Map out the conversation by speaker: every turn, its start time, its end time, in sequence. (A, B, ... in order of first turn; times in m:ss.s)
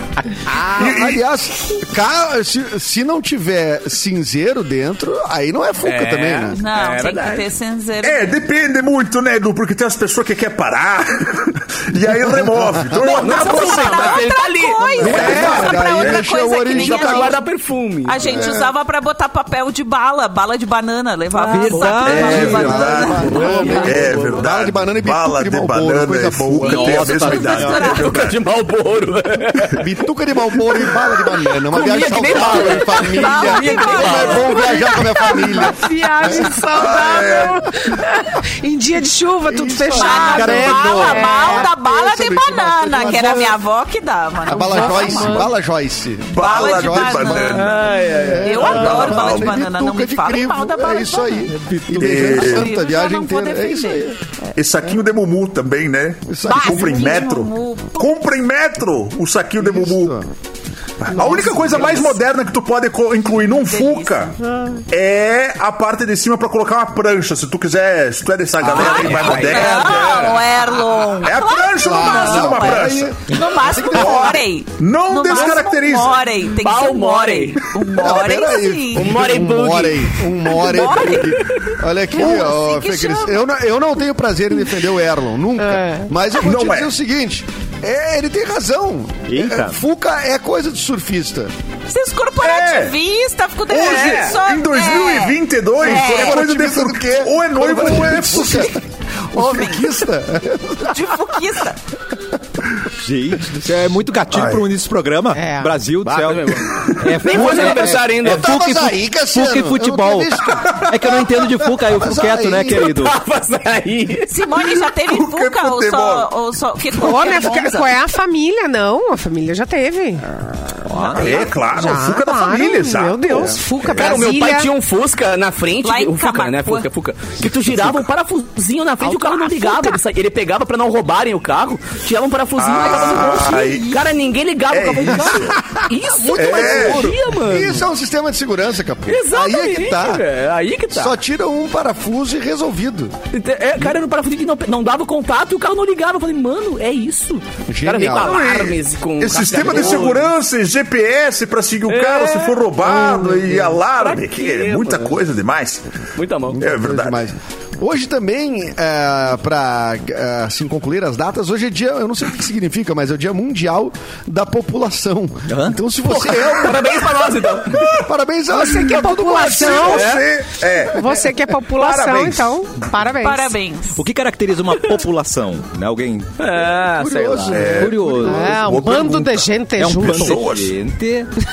0:00.2-0:00.6 A
0:00.7-0:01.2 B
0:00.8-0:06.6 C
0:05.8-0:07.5 D
0:06.5-0:08.3 E
0:08.0-0:14.3 B
0:13.0-0:15.8 D
0:13.0-0:17.4 E
0:15.0-0:17.4 C
0:15.0-0:16.2 B
0:16.7-0:18.5 D
0:18.0-0:24.2 E
0:18.2-0:18.7 C
0:21.4-0:24.4 D
0:21.4-0:22.8 A
0:22.0-0:23.2 B
0:22.1-0:27.0 C
0:23.8-0:28.4 B
0:26.6-0:28.3 E
0:26.7-0:27.9 A
0:27.3-0:29.9 D
0:29.7-0:36.5 C
0:30.6-0:34.6 D
0:32.4-0:34.8 E
0:33.9-0:41.7 F
0:36.6-0:37.6 B
0:39.5-0:43.6 C
0:39.9-0:45.5 E
0:40.3-0:41.2 A
0:44.4-0:54.2 C
0:44.5-0:45.5 F
0:46.3-0:47.8 B
0:46.4-0:54.5 E
0:47.5-0:49.2 D
0:48.8-0:49.5 B
0:51.6-0:52.3 A
0:52.0-0:52.7 B
0:54.6-1:00.2 B
0:56.3-0:57.2 C
0:56.5-0:58.2 E
0:59.6-1:00.3 C
1:01.0-1:04.3 B
1:01.2-1:02.1 D
1:03.7-1:04.4 E
1:04.9-1:10.3 B
1:08.6-1:11.0 D
1:08.8-1:19.2 E
1:11.2-1:13.2 B
1:11.8-1:14.2 C
1:13.9-1:16.2 B
1:15.3-1:15.6 D
1:16.5-1:17.6 D
1:18.0-1:31.5 C
1:18.9-1:21.4 D
1:20.5-1:21.5 E
1:22.1-1:23.4 E
1:25.6-1:26.1 F
1:26.4-1:26.9 B
1:29.3-1:29.8 A
1:31.9-1:36.4 E
1:32.4-1:33.0 B
1:33.7-1:38.7 B
1:35.9-1:38.8 C
1:38.4-1:38.8 E
1:39.3-1:41.1 C
1:39.4-1:40.0 E
1:40.8-1:41.8 E
1:42.9-1:53.1 A
1:44.3-1:44.7 B
1:45.3-1:45.7 F
1:46.0-1:48.8 D
1:47.6-1:51.2 C
1:51.8-1:52.9 C
1:52.7-1:54.3 D
1:54.3-1:58.0 E
1:55.0-1:56.3 B
1:56.9-2:00.2 F
2:00.9-2:01.3 A
2:01.1-2:04.7 F
2:01.1-2:03.6 B
2:03.3-2:03.6 C
2:03.8-2:17.9 D
2:05.8-2:06.9 E
2:07.6-2:07.9 A
2:09.0-2:10.0 F
2:12.6-2:14.0 B
2:13.5-2:14.0 E
2:14.7-2:15.5 B
2:16.3-2:17.1 B
2:16.4-2:20.2 C
2:19.1-2:21.2 D
2:20.9-2:23.1 C
2:23.3-2:30.3 D
2:27.7-2:28.4 C
2:28.2-2:35.8 B
2:31.9-2:35.2 D
2:36.2-2:36.6 D
2:36.5-2:47.0 C
2:36.6-2:37.2 B
2:45.5-2:45.8 A
2:46.0-2:47.9 D
2:47.8-2:48.1 B
2:47.9-2:49.8 C
2:48.5-2:50.1 F
2:49.3-2:51.0 B
2:49.8-2:50.3 D
2:50.9-2:53.5 F
2:51.7-2:52.6 B
2:53.2-2:54.0 E
2:54.0-2:56.3 A
2:56.4-2:57.7 D
2:57.0-2:58.5 C
2:57.5-3:00.7 B
2:57.8-2:58.6 A
2:58.2-3:00.4 F
2:59.7-3:01.3 A